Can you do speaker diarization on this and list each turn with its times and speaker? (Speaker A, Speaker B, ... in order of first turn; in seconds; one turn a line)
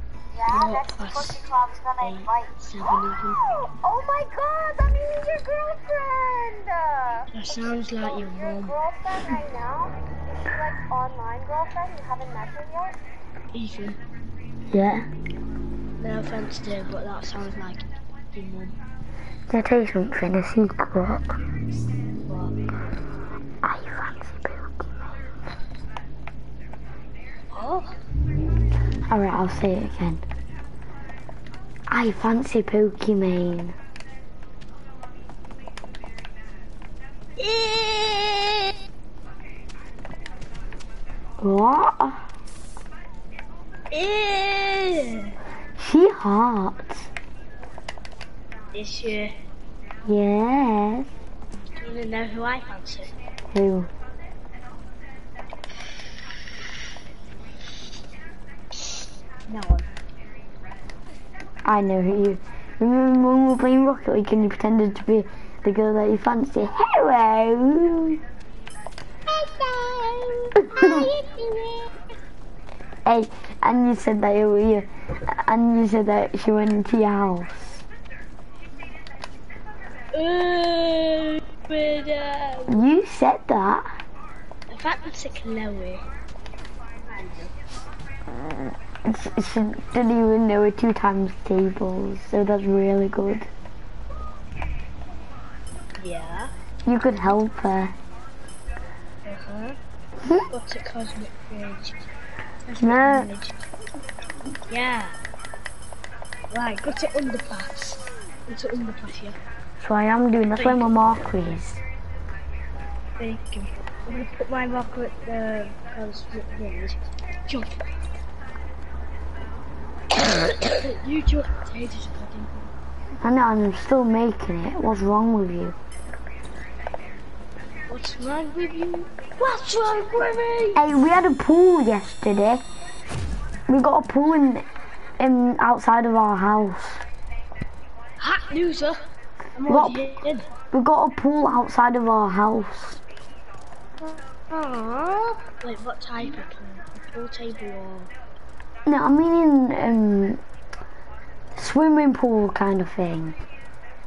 Speaker A: 0.4-2.5
Speaker B: 0.5-1.4
Speaker B: 2.0-3.5
Speaker A: 3.6-7.3
Speaker B: 7.3-8.8
Speaker A: 7.8-9.9
Speaker A: 10.5-13.0
Speaker B: 13.5-14.0
Speaker C: 14.7-15.1
Speaker B: 16.0-18.8
Speaker C: 19.5-21.4
Speaker B: 22.2-22.5
Speaker C: 23.6-25.1
Speaker B: 27.5-28.0
Speaker C: 29.1-30.2
Speaker C: 31.9-33.8
Speaker B: 37.4-38.8
Speaker C: 41.4-42.2
Speaker B: 43.9-45.3
Speaker C: 45.8-47.1
Speaker B: 48.7-49.3
Speaker C: 50.0-51.1
Speaker B: 51.8-53.1
Speaker C: 53.5-53.9
Speaker B: 58.8-59.9
Speaker C: 61.6-68.2
Speaker B: 69.3-72.0
Speaker C: 70.8-71.0
Speaker C: 73.0-77.8
Speaker B: 80.1-82.8
Speaker C: 82.7-83.9
Speaker B: 84.7-86.0
Speaker B: 87.1-87.5
Speaker C: 88.3-93.5
Speaker B: 96.0-96.5
Speaker C: 96.9-97.9
Speaker B: 99.2-99.8
Speaker B: 100.5-102.0
Speaker B: 102.7-103.6
Speaker C: 102.8-103.3
Speaker B: 104.7-105.2
Speaker B: 106.5-109.4
Speaker C: 109.8-111.8
Speaker B: 110.5-111.2
Speaker B: 113.2-117.7
Speaker B: 120.3-122.7
Speaker C: 123.2-125.8
Speaker B: 127.9-130.8
Speaker C: 130.8-132.6
Speaker C: 133.7-134.7
Speaker C: 135.2-137.0
Speaker B: 138.2-139.0
Speaker B: 139.6-140.5
Speaker C: 139.7-140.0
Speaker C: 140.7-143.0
Speaker B: 144.1-148.1
Speaker C: 148.8-150.4
Speaker C: 151.5-153.4